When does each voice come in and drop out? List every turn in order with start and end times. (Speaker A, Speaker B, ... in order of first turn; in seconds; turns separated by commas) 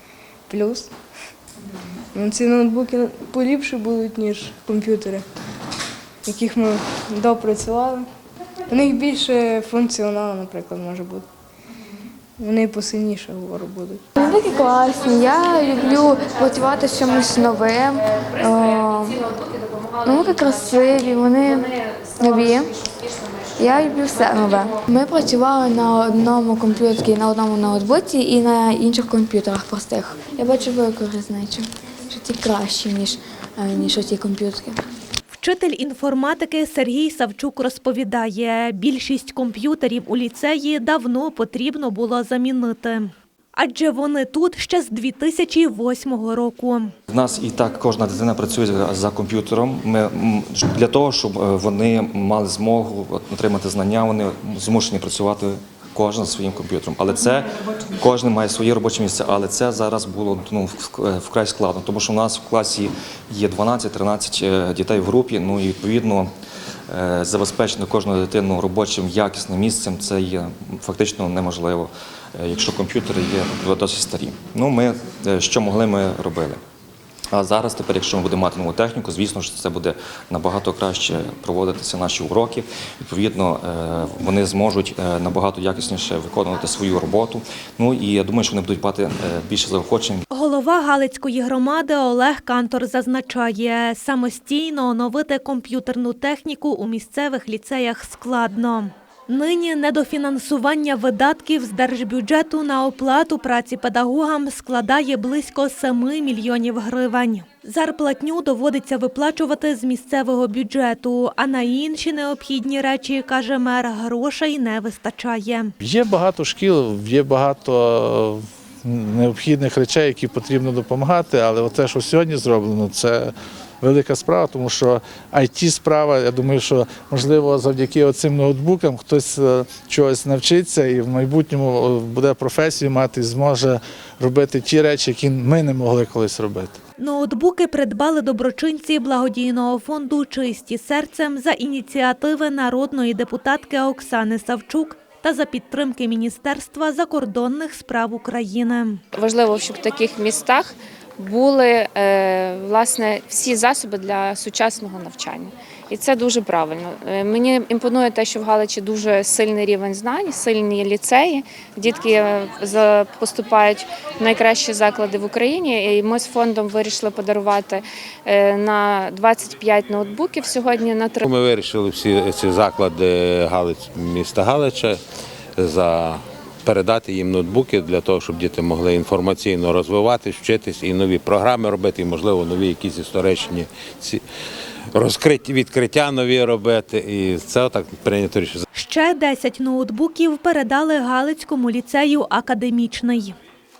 Speaker A: 0.5-0.9, Speaker A: 2.1-5.2, Speaker A: 6.2-8.1, Speaker A: 8.7-11.3, Speaker A: 12.4-14.0, Speaker B: 14.2-19.4, Speaker C: 18.5-20.8, Speaker B: 20.0-22.8, Speaker C: 22.2-24.2, Speaker B: 23.5-34.8, Speaker D: 35.3-46.9, Speaker E: 47.1-66.3, Speaker E: 66.9-76.6, Speaker E: 77.3-90.2, Speaker D: 90.3-115.7, Speaker F: 115.8-136.8, Speaker D: 137.0-149.0, Speaker C: 149.1-171.2, Speaker G: 171.2-175.0, Speaker G: 175.6-184.2, Speaker G: 184.9-188.6, Speaker D: 188.7-193.3